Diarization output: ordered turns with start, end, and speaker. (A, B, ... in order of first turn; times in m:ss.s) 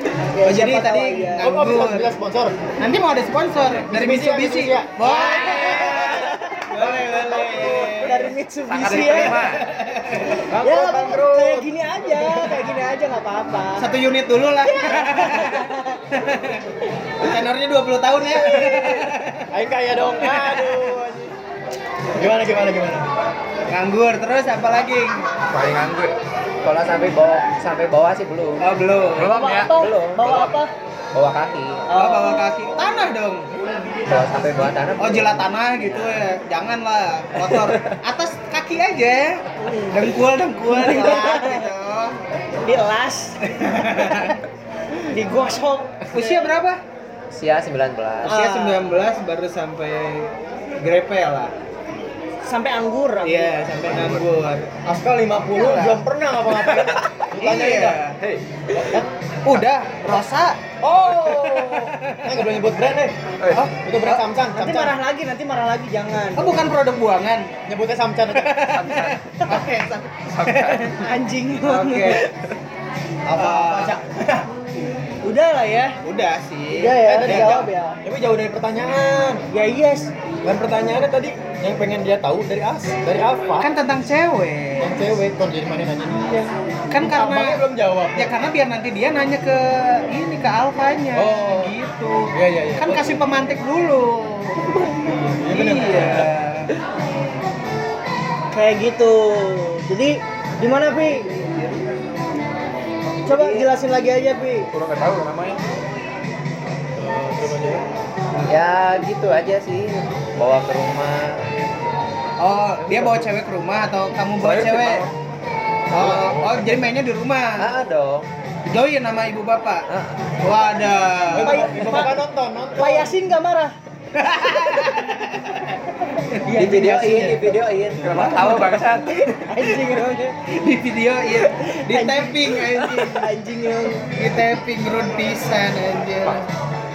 0:00.3-0:01.5 A
0:00.4-0:02.1 B
0:01.4-0:02.6 C
0:02.8-0:08.4 B
0:03.9-0:06.3 C
0:05.0-0:09.4 A
0:08.7-0:09.7 D
0:08.9-0:10.4 B
0:10.5-0:12.5 C
0:10.6-0:13.9 A
0:13.8-0:16.6 B
0:14.7-0:16.0 A
0:17.2-0:19.5 B
0:19.5-0:21.3 C
0:20.2-0:20.9 B
0:22.2-0:23.1 C
0:23.7-0:25.3 B
0:25.5-0:26.1 D
0:26.6-0:28.6 E
0:28.6-0:29.4 B
0:29.2-0:30.5 D
0:29.2-0:30.7 A
0:29.7-0:30.5 E
0:31.1-0:31.9 E
0:31.9-0:32.4 A
0:31.9-0:33.5 B
0:34.1-0:36.2 E
0:35.0-0:42.2 B
0:37.6-0:37.9 E
0:39.6-0:40.1 A
0:40.7-0:41.7 A
0:42.6-0:43.5 A
0:43.5-0:44.4 B
0:45.1-0:46.5 A
0:46.1-0:46.8 B
0:47.3-0:48.4 E
0:48.2-0:48.9 A
0:48.2-0:50.3 B
0:50.8-0:51.5 B
0:52.4-0:53.6 A
0:53.2-0:54.7 B
0:53.9-0:54.2 D
0:54.8-0:58.0 C
0:55.5-0:56.0 B
0:57.4-0:58.2 B
0:58.2-0:59.0 D
0:58.8-0:59.1 C
0:59.4-1:00.6 B
1:00.8-1:03.2 C
1:01.4-1:02.3 B
1:03.4-1:03.7 D
1:03.5-1:04.2 B
1:03.8-1:05.0 C
1:04.5-1:06.6 A
1:06.4-1:07.5 B
1:07.7-1:08.7 C
1:08.3-1:10.8 B
1:08.7-1:09.7 D
1:10.3-1:11.0 D
1:10.8-1:12.3 A
1:11.6-1:12.3 B
1:13.2-1:14.5 C
1:13.3-1:14.0 B
1:15.2-1:16.0 A
1:16.0-1:17.6 B
1:16.7-1:18.0 A
1:17.0-1:19.4 C
1:19.5-1:20.1 A
1:20.4-1:23.7 C
1:23.6-1:25.0 B
1:24.8-1:28.3 C
1:26.9-1:27.6 B
1:28.2-1:34.7 B
1:31.1-1:31.7 C
1:32.3-1:33.2 C
1:35.0-1:36.3 C
1:35.5-1:36.7 B
1:38.5-1:41.3 A
1:43.2-1:44.7 A
1:43.3-1:43.7 E
1:44.7-1:45.6 D
1:47.0-1:47.8 C
1:48.5-1:51.4 E
1:52.4-1:55.1 B
1:54.4-1:55.1 D
1:55.9-1:57.7 B
1:56.0-1:56.7 C
1:57.6-1:58.3 E
1:58.7-1:59.9 B
1:59.9-2:00.2 E
2:00.4-2:01.7 B
2:01.3-2:03.1 C
2:01.4-2:02.2 A
2:02.8-2:03.8 A
2:04.2-2:05.7 B
2:06.5-2:07.7 C
2:06.5-2:08.2 E
2:08.0-2:09.8 D
2:08.1-2:08.8 B
2:09.5-2:10.4 A
2:10.5-2:13.3 B
2:11.3-2:14.0 A
2:14.1-2:16.4 B